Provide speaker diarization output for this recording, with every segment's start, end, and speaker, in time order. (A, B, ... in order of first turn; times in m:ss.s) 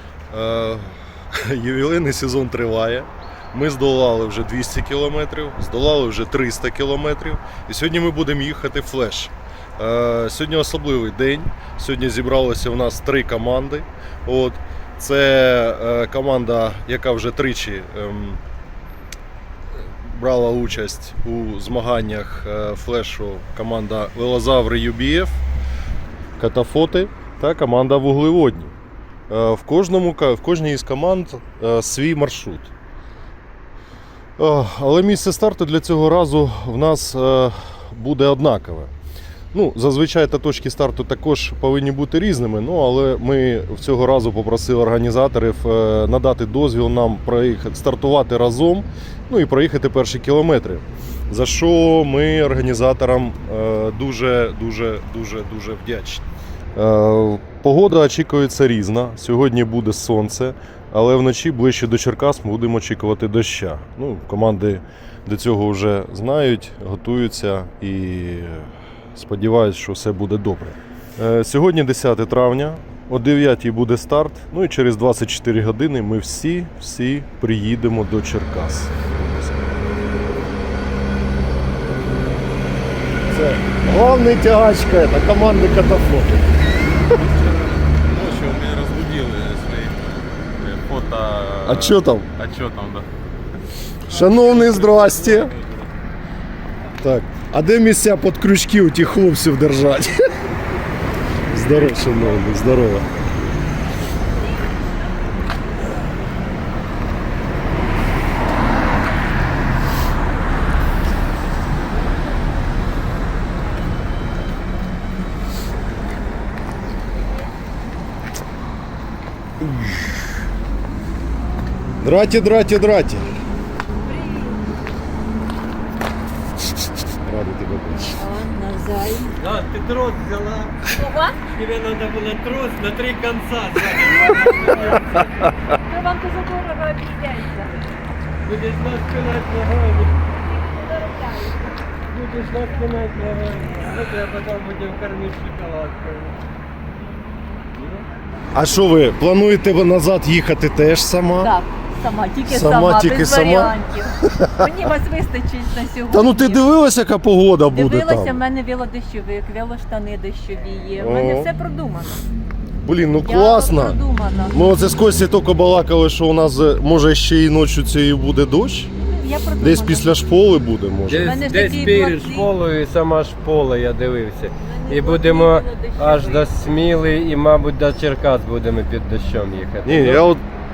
0:00.3-0:18.4 A
0:19.7-0:25.4 A
0:26.4-0:28.7 A
0:29.3-0:32.7 A
0:34.4-0:38.9 A
0:39.5-0:56.2 A
0:56.8-1:19.7 A
1:23.3-1:26.5 A
1:27.2-1:33.1 B
1:31.6-1:32.3 A
1:34.1-1:35.5 A
1:34.1-1:35.9 B
1:37.0-1:40.3 A
1:41.5-1:43.1 A
2:02.0-2:03.3 A
2:04.0-2:04.6 C
2:07.2-2:08.2 A
2:08.0-2:09.4 C
2:09.4-2:10.8 D
2:10.9-2:11.4 C
2:11.5-2:15.1 D
2:14.1-2:15.0 C
2:15.7-2:17.7 C
2:18.4-2:20.2 D
2:20.2-2:21.8 C
2:22.1-2:26.4 D
2:28.5-2:31.5 A
2:31.4-2:36.6 C
2:32.5-2:33.7 A
2:36.1-2:38.4 A
2:37.7-2:42.2 C
2:41.0-2:41.5 A
2:42.8-2:48.9 A
2:43.2-2:44.6 C
2:49.0-2:50.2 C
2:49.6-2:51.4 A
2:51.1-3:00.3 D
2:51.2-2:52.5 C
2:54.6-2:56.5 C
2:59.8-3:00.4 A